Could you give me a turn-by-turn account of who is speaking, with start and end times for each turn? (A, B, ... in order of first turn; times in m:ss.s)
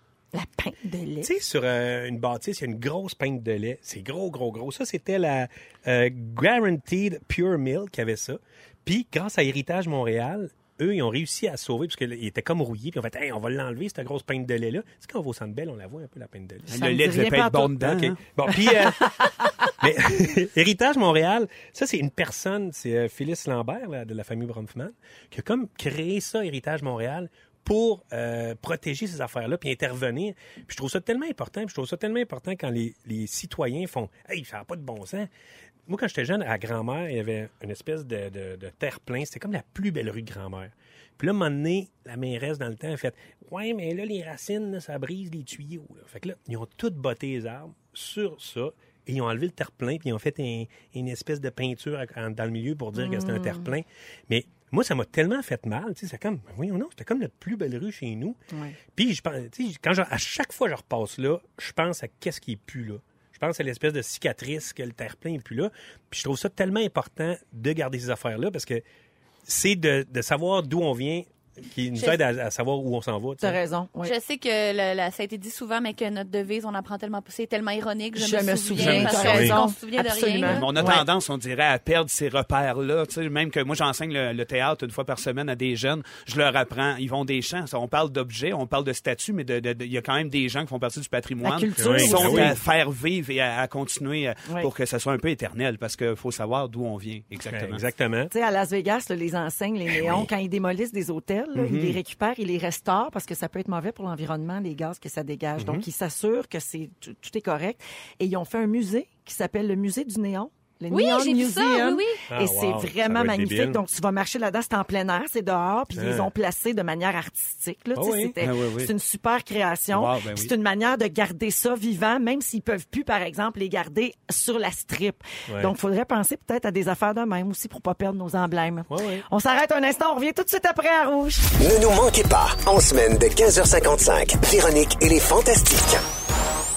0:00.3-0:01.3 A
0:01.2-0:16.8 B
0:16.7-0:17.8 A
0:16.7-0:18.2 C
0:17.7-0:19.2 B
0:19.7-0:35.3 B
0:35.9-0:58.4 B
0:53.0-0:53.7 A
0:58.5-0:58.8 A
0:58.9-1:08.8 B
1:09.4-1:13.6 B
1:13.4-1:14.1 A
1:14.0-1:20.7 D
1:18.2-1:21.0 A
1:18.8-1:19.3 C
1:19.0-1:19.6 B
1:20.4-1:37.8 C
1:31.4-1:32.6 A
1:31.8-1:32.6 B
1:37.5-1:38.3 B
1:38.3-2:11.5 A
1:39.9-1:40.3 B
1:41.5-1:42.0 C
1:45.6-1:45.8 B
1:50.9-1:52.2 D
1:52.3-1:53.8 B
1:56.0-1:56.3 B
1:57.9-1:58.3 B
1:58.4-1:58.9 C
1:59.9-2:00.5 C
2:08.9-2:09.2 B
2:11.6-2:16.0 E